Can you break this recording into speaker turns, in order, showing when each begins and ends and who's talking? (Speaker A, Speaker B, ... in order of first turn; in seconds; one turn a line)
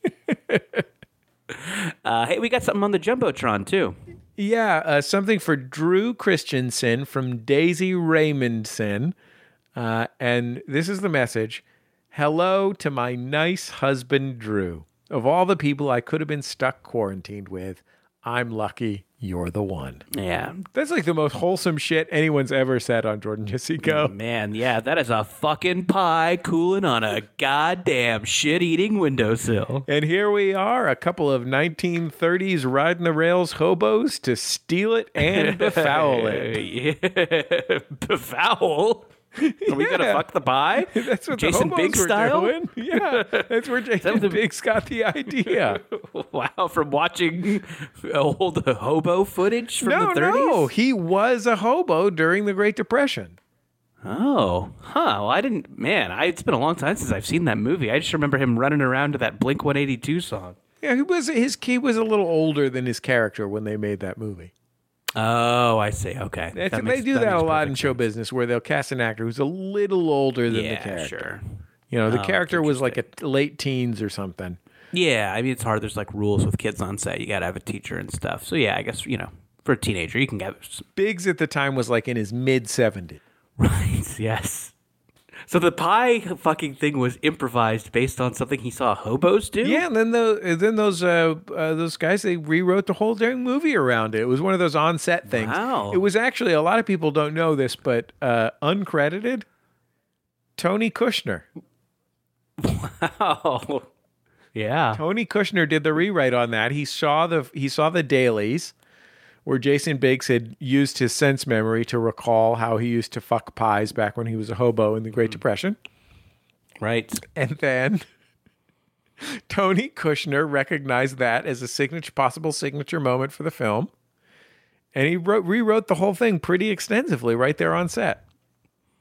Speaker A: 1.5-4.0
Speaker B: 4.4-9.2
Speaker B: 9.8-20.0
Speaker A: 20.1-20.6
Speaker B: 20.7-24.1
Speaker A: 23.8-29.9
Speaker B: 29.9-36.6
Speaker A: 35.2-39.1
Speaker B: 39.4-40.2
Speaker A: 39.7-43.5
Speaker B: 40.9-45.8
Speaker A: 44.0-44.4
Speaker A: 45.5-50.7
Speaker B: 49.8-53.4
Speaker A: 54.0-60.6
Speaker B: 60.8-64.5
Speaker A: 65.2-68.0
Speaker B: 66.5-71.3
Speaker A: 70.5-71.4
Speaker B: 71.9-74.6
Speaker A: 72.1-73.0
Speaker A: 74.9-80.9
Speaker B: 81.0-83.2
Speaker A: 83.6-84.7
Speaker A: 85.5-89.8
Speaker B: 89.6-99.5
Speaker A: 95.3-96.0
Speaker B: 100.6-101.5
Speaker A: 102.6-103.9
Speaker A: 104.5-105.0
Speaker B: 105.0-108.7
Speaker B: 109.5-115.8
Speaker A: 116.8-117.2
Speaker B: 117.3-118.0
Speaker B: 119.2-123.9
Speaker B: 125.0-128.2